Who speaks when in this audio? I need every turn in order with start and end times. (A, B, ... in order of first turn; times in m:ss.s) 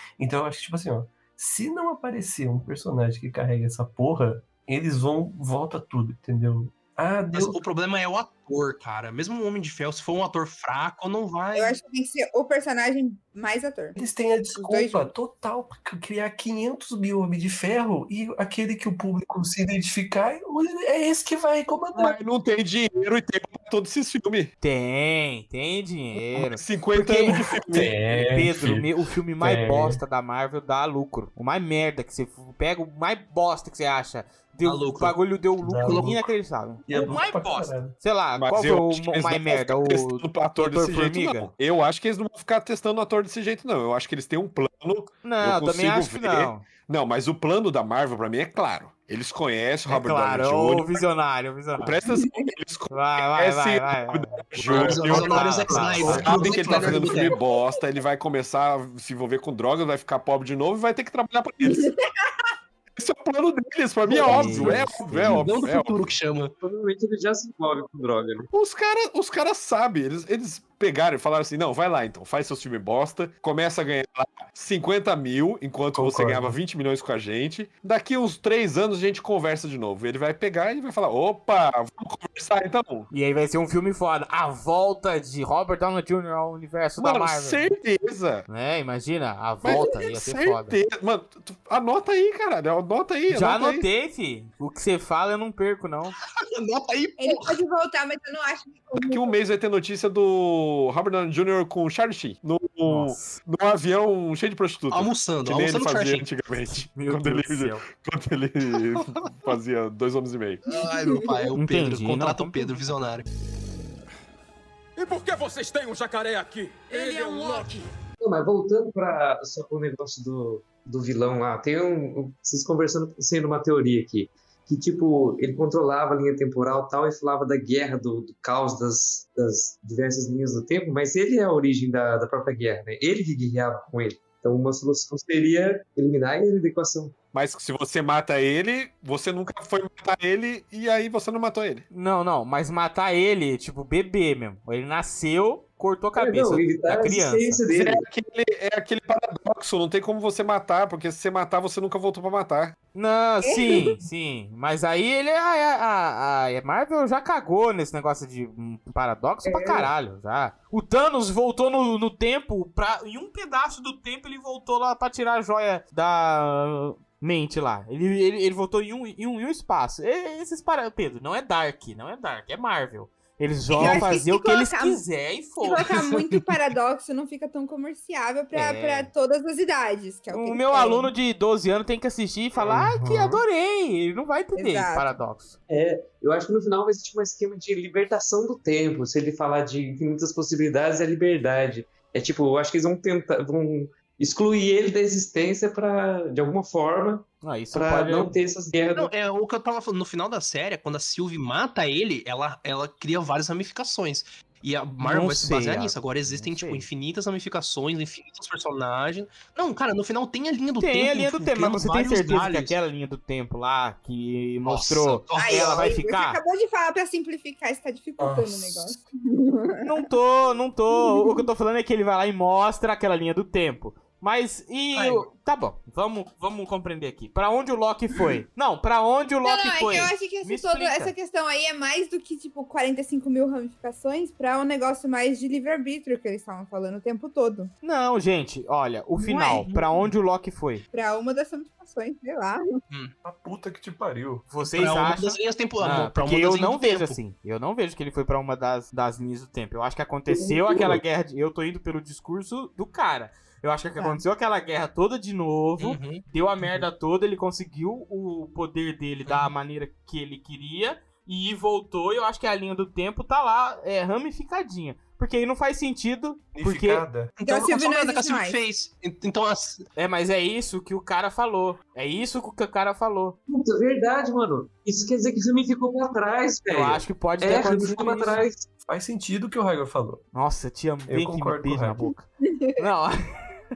0:00.2-0:07.6 A
0:07.3-0:11.8 B
0:11.5-0:14.0 C
0:14.0-0:22.2 A
0:14.5-0:15.1 C
0:21.9-0:24.5 D
0:24.6-0:27.4 E
0:26.3-0:28.0 D
0:27.6-0:30.0 A
0:28.1-0:41.5 E
0:34.6-0:35.2 B
0:35.6-0:36.2 A
0:35.8-0:36.3 B
0:36.8-0:38.0 A
0:38.4-0:51.0 D
0:45.2-0:46.6 E
0:49.9-0:52.0 E
0:51.8-1:01.9 D
0:52.9-0:56.3 E
0:54.6-0:57.3 B
0:56.0-0:57.2 A
1:01.6-1:02.0 C
1:02.9-1:06.1 D
1:04.2-1:05.3 E
1:05.2-1:06.5 B
1:06.6-1:08.5 F
1:08.5-1:23.1 D
1:15.9-1:16.6 A
1:23.1-1:27.7 E
1:27.0-1:28.4 D
1:28.5-1:30.8 E
1:29.6-1:33.8 D
1:33.3-1:36.1 E
1:36.4-1:37.6 B
1:37.2-1:39.3 C
1:39.0-1:50.6 D
1:42.8-1:43.4 E
1:44.9-1:46.3 B
1:46.7-1:47.8 E
1:50.7-1:53.2 B
1:51.6-1:52.7 E
1:55.0-1:57.8 G
1:58.2-2:17.1 F
2:17.3-2:21.8 D
2:21.9-2:27.6 E
2:26.2-2:28.0 F
2:27.7-2:32.8 D
2:32.9-2:55.9 E
2:33.4-2:34.0 C
2:39.4-2:39.9 F
2:53.7-2:55.0 C
2:55.6-3:01.1 C
2:55.9-2:56.6 B
2:58.5-2:59.1 E
3:00.3-3:05.6 E
3:02.6-3:03.4 A
3:04.6-3:05.1 C
3:05.7-3:19.1 F
3:17.4-3:18.3 E
3:18.9-3:32.8 B
3:25.0-3:26.9 E
3:30.8-3:36.4 E
3:34.6-3:35.9 B
3:35.4-3:40.0 C
3:38.2-3:39.0 A
3:39.8-3:51.1 E
3:40.9-3:41.4 C
3:44.9-3:45.3 B
3:49.4-3:57.7 C
3:57.8-4:00.8 E
3:59.2-4:00.1 C
4:00.9-4:02.6 C
4:03.2-4:04.4 A
4:04.5-4:27.0 E
4:04.7-4:07.2 B
4:15.8-4:16.2 B
4:26.5-4:27.4 A
4:27.4-4:29.8 B
4:27.4-4:28.6 C
4:30.0-4:33.4 E
4:33.5-4:38.7 F
4:36.7-4:38.4 E
4:38.8-4:40.2 A
4:40.3-4:43.5 E
4:41.0-4:42.1 A
4:42.5-4:42.8 C